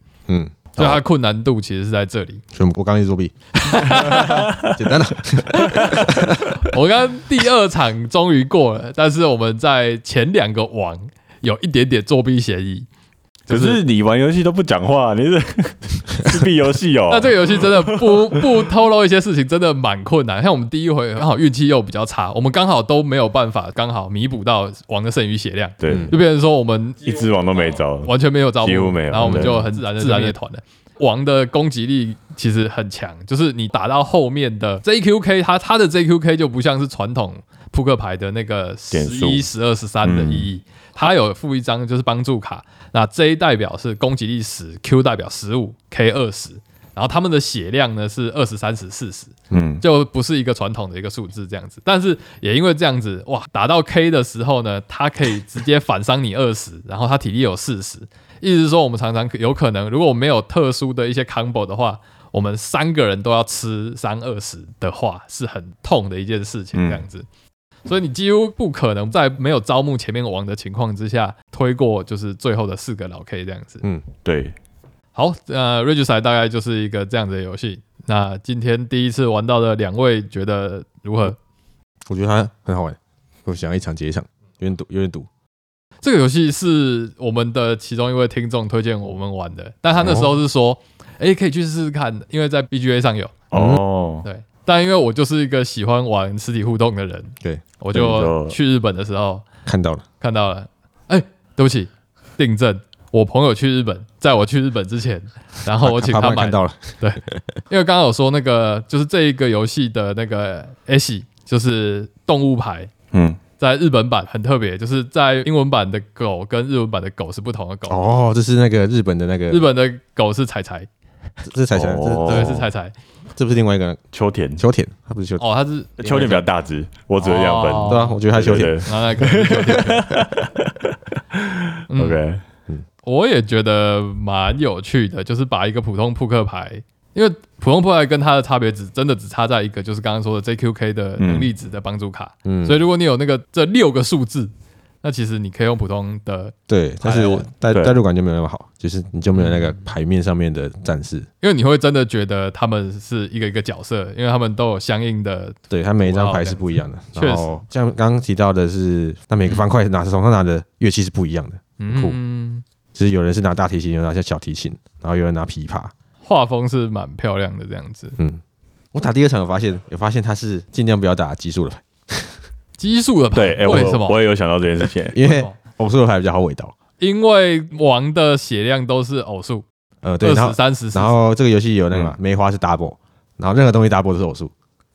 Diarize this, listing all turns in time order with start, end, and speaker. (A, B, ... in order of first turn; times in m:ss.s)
0:00.3-0:01.0 A
0:00.8-0:02.4 B
0:02.5-0:06.6 A
0:03.6-0:04.5 B
0:04.3-0:04.7 C
0:05.5-0:12.9 B
0:13.5-0:13.8 B
0:13.5-0:18.6 C
0:17.1-1:07.3 B
0:25.8-0:26.2 C
0:25.8-0:26.1 A
0:27.0-0:30.3 C
0:29.2-0:29.7 A
0:38.9-0:39.5 C
0:40.0-0:40.5 C
0:49.5-0:49.8 C
1:06.7-1:07.0 C
1:07.8-1:13.8 B
1:14.2-1:14.5 C
1:15.1-1:21.4 B
1:22.1-1:25.3 A
1:26.0-1:33.4 B
1:29.9-1:30.3 A
1:33.5-1:34.2 C
1:33.5-1:33.8 A
1:34.2-1:39.4 B
1:37.9-1:38.6 C
1:39.6-1:40.0 A
1:40.2-1:52.9 B
1:45.8-1:47.4 A
1:53.1-1:53.4 C
1:53.6-1:58.0 B
1:57.9-1:59.6 A
1:59.5-2:00.9 B
2:01.4-2:02.6 A
2:01.7-2:02.6 C
2:02.3-2:02.9 B
2:03.4-2:04.0 A
2:04.1-2:04.6 C
2:04.6-2:05.4 A
2:05.4-2:06.3 B
2:06.0-2:06.4 A
2:06.0-2:10.7 C
2:07.2-2:08.2 B
2:07.8-2:08.8 A
2:08.8-2:10.1 B
2:11.4-2:12.4 C
2:11.9-2:12.2 B
2:13.0-2:24.5 B
2:21.2-2:21.5 C
2:22.4-2:22.8 A
2:25.0-2:27.5 B
2:26.7-2:31.3 A
2:27.7-2:28.0 C
2:29.4-2:29.8 B
2:31.4-2:36.6 B
2:35.7-2:42.2 A
2:37.1-2:37.6 B
2:41.8-2:42.6 B
2:42.9-2:45.9 A
2:46.2-2:48.2 B
2:48.9-2:52.4 A
2:52.8-2:54.2 B
2:53.3-2:55.2 C
2:55.1-2:56.7 A
2:57.0-2:59.6 B
3:00.0-3:04.5 A
3:00.2-3:01.2 B